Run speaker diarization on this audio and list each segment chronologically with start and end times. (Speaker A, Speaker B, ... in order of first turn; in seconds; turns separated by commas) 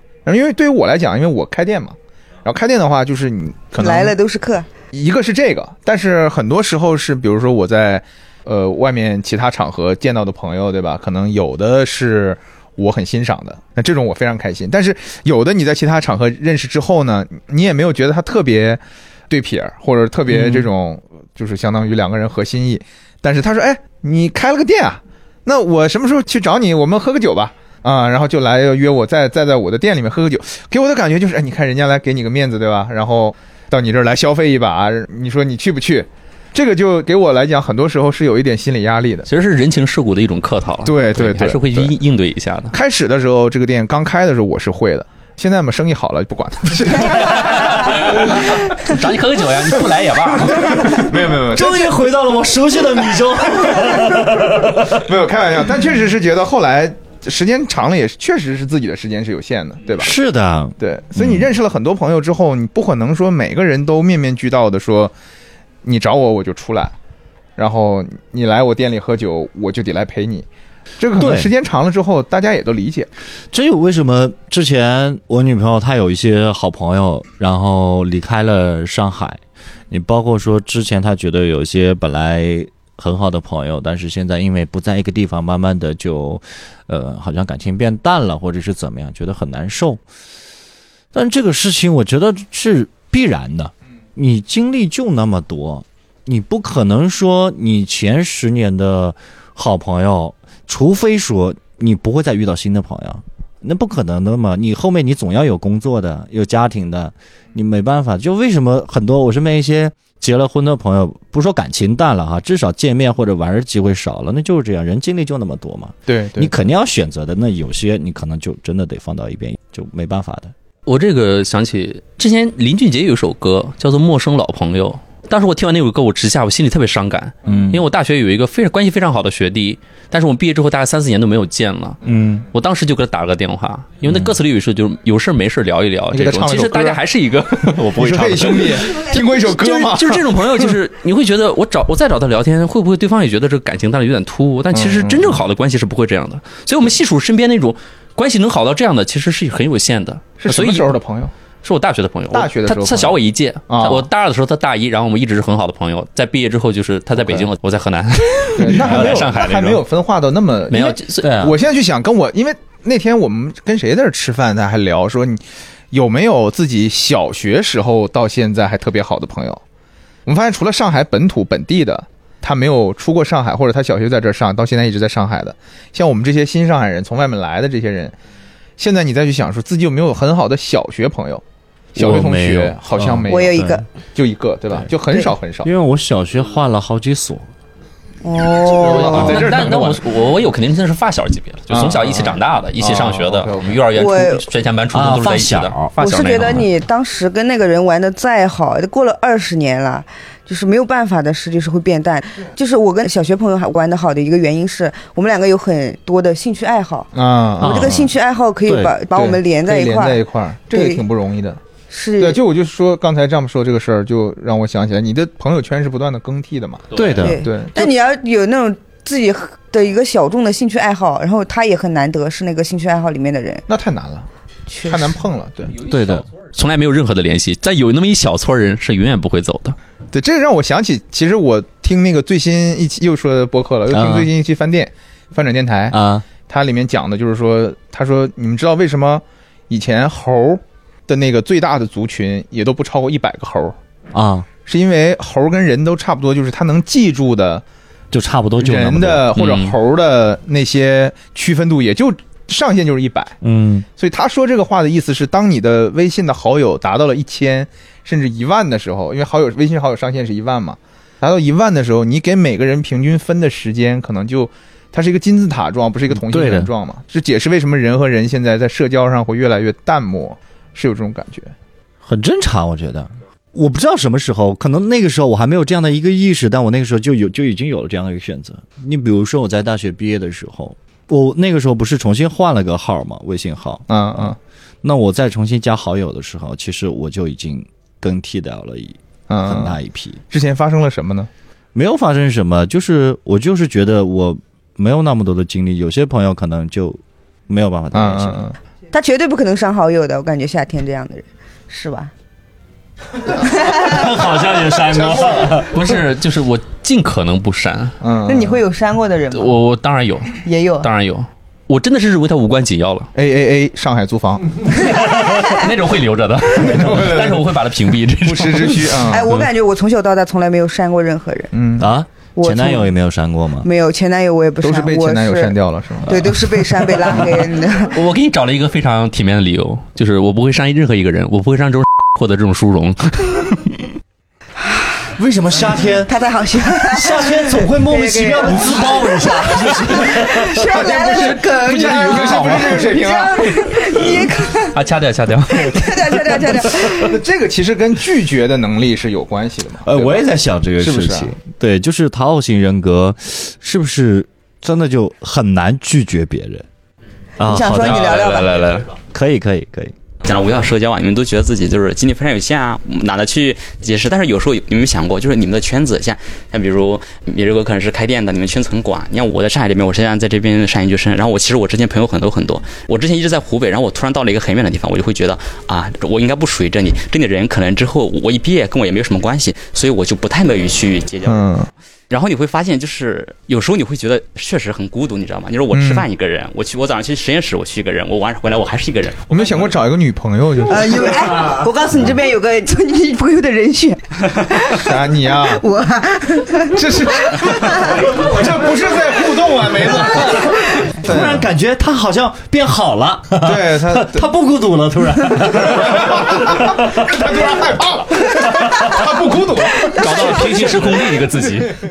Speaker A: 0.3-4.2, Speaker B: 3.8-4.7, Speaker A: 4.9-39.3, Speaker C: 39.3-42.8, Speaker A: 40.9-41.9, Speaker A: 42.7-48.4, Speaker C: 47.2-51.0, Speaker A: 50.5-52.0, Speaker D: 50.9-55.0, Speaker A: 54.3-60.1, Speaker D: 60.0-61.5, Speaker A: 60.8-65.1, Speaker A: 65.8-66.9, Speaker A: 67.6-70.5, Speaker A: 71.0-73.1, Speaker D: 71.2-71.5, Speaker D: 73.5-90.0, Speaker D: 91.1-120.5, Speaker A: 116.1-116.5, Speaker C: 120.9-132.0, Speaker D: 127.5-127.8, Speaker D: 132.1-132.4, Speaker C: 132.5-151.0, Speaker D: 134.1-134.3, Speaker A: 136.1-137.0, Speaker A: 137.7-140.7, Speaker A: 144.7-145.4, Speaker A: 150.4-151.3, Speaker C: 151.6-159.8, Speaker A: 152.3-153.2, Speaker A: 153.7-154.1, Speaker A: 158.6-165.4, Speaker D: 158.7-159.3, Speaker C: 160.7-161.4, Speaker D: 161.2-161.6, Speaker A: 165.9-169.6, Speaker A: 170.3-178.2, Speaker A: 178.8-181.4, Speaker A: 181.9-183.6, Speaker D: 182.0-183.8, Speaker B: 183.3-183.8, Speaker A: 184.2-185.7, Speaker D: 185.6-187.5, Speaker B: 188.2-189.4, Speaker C: 188.8-196.7, Speaker A: 188.9-190.0, Speaker D: 189.1-189.4, Speaker A: 191.7-193.8, Speaker B: 193.9-194.4, Speaker D: 194.9-195.9, Speaker B: 196.0-207.1, Speaker A: 207.1-208.1, Speaker D: 207.6-208.1, Speaker B: 207.6-211.0, Speaker D: 208.7-209.0, Speaker A: 209.1-211.6, Speaker B: 211.9-212.4, Speaker A: 212.2-216.9, Speaker C: 216.9-217.2, Speaker D: 216.9-217.4, Speaker B: 217.2-223.7, Speaker A: 217.4-217.9, Speaker A: 223.7-224.3, Speaker B: 224.7-225.2, Speaker A: 224.9-225.8, Speaker C: 225.8-229.8, Speaker D: 225.8-226.3, Speaker A: 230.1-243.8, Speaker D: 233.9-234.3, Speaker D: 235.9-236.3, Speaker D: 244.1-244.5, Speaker A: 244.7-247.6, Speaker D: 248.1-249.3, Speaker A: 248.6-253.3, Speaker C: 249.3-249.8, Speaker D: 253.4-253.9, Speaker A: 254.0-271.5, Speaker D: 266.1-266.7, Speaker D: 272.0-284.3, Speaker A: 283.9-284.4, Speaker D: 284.8-290.2, Speaker A: 289.3-289.8, Speaker A: 290.3-291.3, Speaker D: 291.8-298.4, Speaker A: 297.9-298.6, Speaker B: 298.9-302.1, Speaker B: 303.4-304.1, Speaker D: 303.4-305.8, Speaker A: 304.9-305.6, Speaker C: 305.5-308.0, Speaker A: 308.0-308.6, Speaker B: 308.2-309.6, Speaker C: 309.3-313.1, Speaker B: 310.4-310.9, Speaker A: 313.1-314.6, Speaker C: 314.8-319.4, Speaker B: 315.1-315.6, Speaker A: 316.5-317.5, Speaker A: 318.2-319.3, Speaker B: 319.1-321.5, Speaker A: 321.5-321.9, Speaker D: 321.8-323.7, Speaker B: 322.4-322.9, Speaker B: 323.6-328.0, Speaker A: 324.6-326.3, Speaker C: 327.9-333.8, Speaker D: 335.2-336.1, Speaker B: 336.1-344.8, Speaker D: 336.7-340.7, Speaker A: 340.6-343.8, Speaker C: 341.0-342.9, Speaker C: 344.7-345.9, Speaker B: 345.5-347.1, Speaker A: 346.9-350.2, Speaker D: 349.8-356.6, Speaker A: 350.8-351.3, Speaker D: 357.4-358.1, Speaker B: 357.4-358.7, Speaker C: 357.8-358.9, Speaker D: 359.1-360.0, Speaker E: 360.2-381.5, Speaker A: 381.3-381.7, Speaker E: 382.1-389.5, Speaker A: 385.7-386.1, Speaker A: 389.3-391.4, Speaker B: 390.7-398.1, Speaker A: 394.7-395.6, Speaker A: 396.7-401.5, Speaker D: 400.1-407.4, Speaker A: 403.4-404.3, Speaker A: 405.6-411.1, Speaker C: 409.9-411.8